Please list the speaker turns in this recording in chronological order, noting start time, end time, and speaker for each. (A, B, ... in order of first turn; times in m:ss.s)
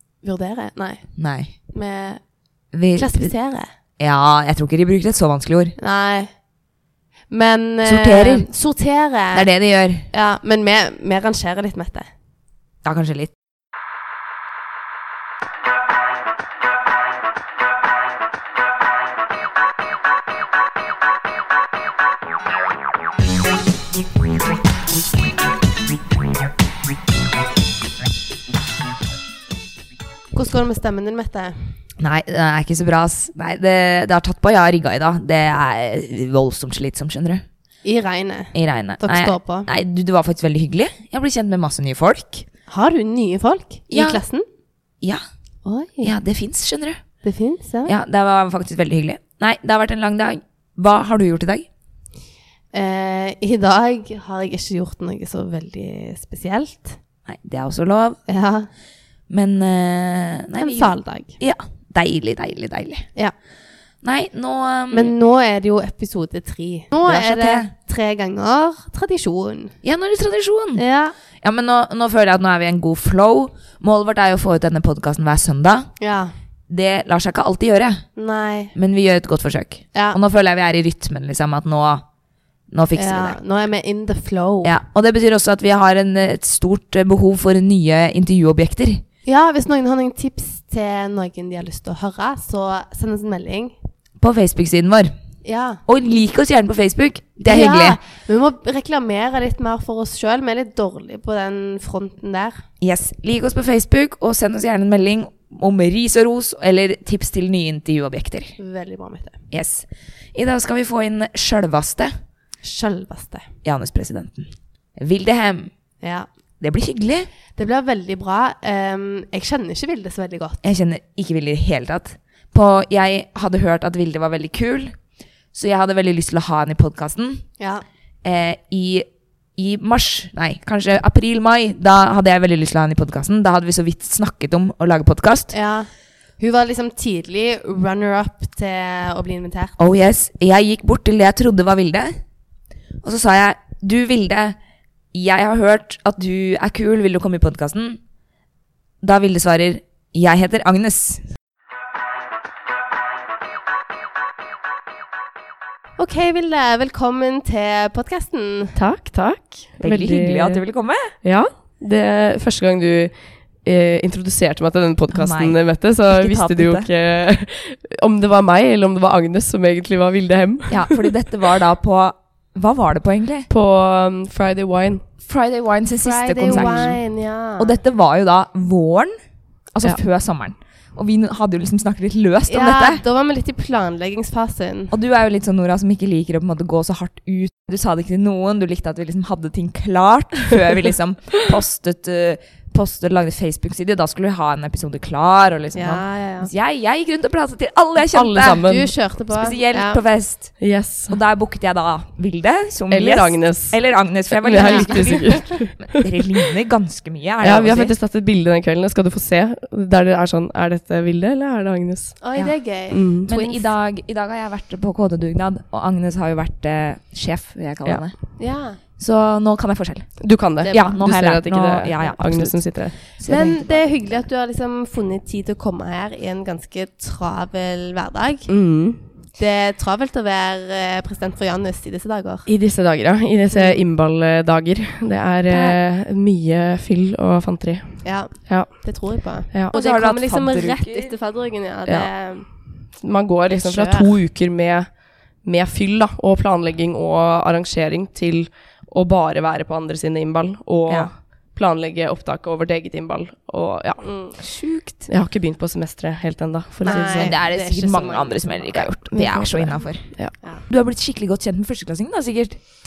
0:00.2-0:02.2 A
0:01.2-0:01.6 B
0:02.7-0:03.3 B
0:03.0-0:03.7 A
0:04.0-0:05.8 B
0:05.8-0:06.3 A
0:07.3-0:09.5 A
0:07.8-0:08.5 B
0:09.3-0:10.1 B
0:10.1-0:12.1 A
0:12.8-0:13.3 B
0:30.3-0:31.8 A
0:32.0-0:37.4 B
0:37.8-0:39.7 A
0:38.5-0:42.5 B
0:42.7-0:44.5 A
0:43.9-0:44.2 B
0:45.6-0:46.1 A
0:46.0-0:47.0 B
0:47.2-0:47.9 A
0:47.9-0:51.7 B
0:52.7-0:57.0 A
0:57.3-0:58.2 B
0:58.3-0:58.7 A
0:59.3-1:03.1 B
1:00.6-1:01.4 A
1:04.0-1:05.1 B
1:04.9-1:09.8 A
1:07.0-1:07.7 B
1:09.8-1:10.8 B
1:10.8-1:11.2 A
1:11.4-1:15.9 B
1:16.0-1:16.3 A
1:16.7-1:18.0 B
1:18.2-1:18.8 A
1:18.8-1:22.0 B
1:22.7-1:23.4 B
1:23.0-1:24.8 A
1:24.6-1:29.0 B
1:29.3-1:33.7 A
1:34.2-1:35.2 B
1:35.4-1:35.8 A
1:35.9-1:38.0 B
1:37.4-1:42.6 A
1:42.8-1:48.6 B
1:48.6-1:49.4 A
1:49.5-1:52.1 B
1:52.6-1:53.5 A
1:53.6-1:55.7 B
1:56.0-1:56.3 A
1:56.6-1:57.3 B
1:57.5-2:00.6 A
2:00.6-2:05.0 B
2:05.5-2:07.5 B
2:07.6-2:07.8 A
2:08.2-2:15.6 B
2:15.5-2:19.8 A
2:19.8-2:22.2 B
2:23.0-2:24.6 B
2:25.1-2:28.0 B
2:29.0-2:31.2 B
2:36.0-2:38.8 A
2:38.8-2:40.6 C
2:39.8-2:41.2 B
2:41.2-2:51.0 C
2:45.1-2:46.9 B
2:50.7-2:53.5 B
2:53.5-2:55.0 C
2:55.2-2:57.0 B
2:56.0-2:57.8 A
2:56.5-2:56.9 C
2:57.6-2:59.1 B
2:59.7-3:03.0 B
3:02.5-3:04.9 A
3:04.9-3:18.7 B
3:15.7-3:16.5 A
3:18.1-3:19.0 C
3:18.5-3:20.0 A
3:19.2-3:28.0 B
3:20.6-3:21.2 C
3:22.9-3:26.0 C
3:24.6-3:25.4 A
3:27.4-3:32.2 C
3:32.2-3:33.0 A
3:32.9-3:33.6 C
3:33.2-3:38.4 B
3:38.4-3:38.8 A
3:39.0-3:44.2 B
3:40.2-3:43.0 C
3:43.1-3:48.6 A
3:48.5-3:49.0 C
3:49.4-3:52.5 A
3:52.5-3:59.7 C
3:53.5-3:53.8 A
3:58.0-4:02.5 A
3:59.7-4:01.1 B
4:01.9-4:02.1 C
4:02.9-4:14.1 C
4:03.5-4:04.1 A
4:14.0-4:14.4 A
4:14.4-4:15.1 B
4:15.1-4:17.4 C
4:16.8-4:19.0 A
4:16.8-4:22.6 B
4:19.1-4:20.3 C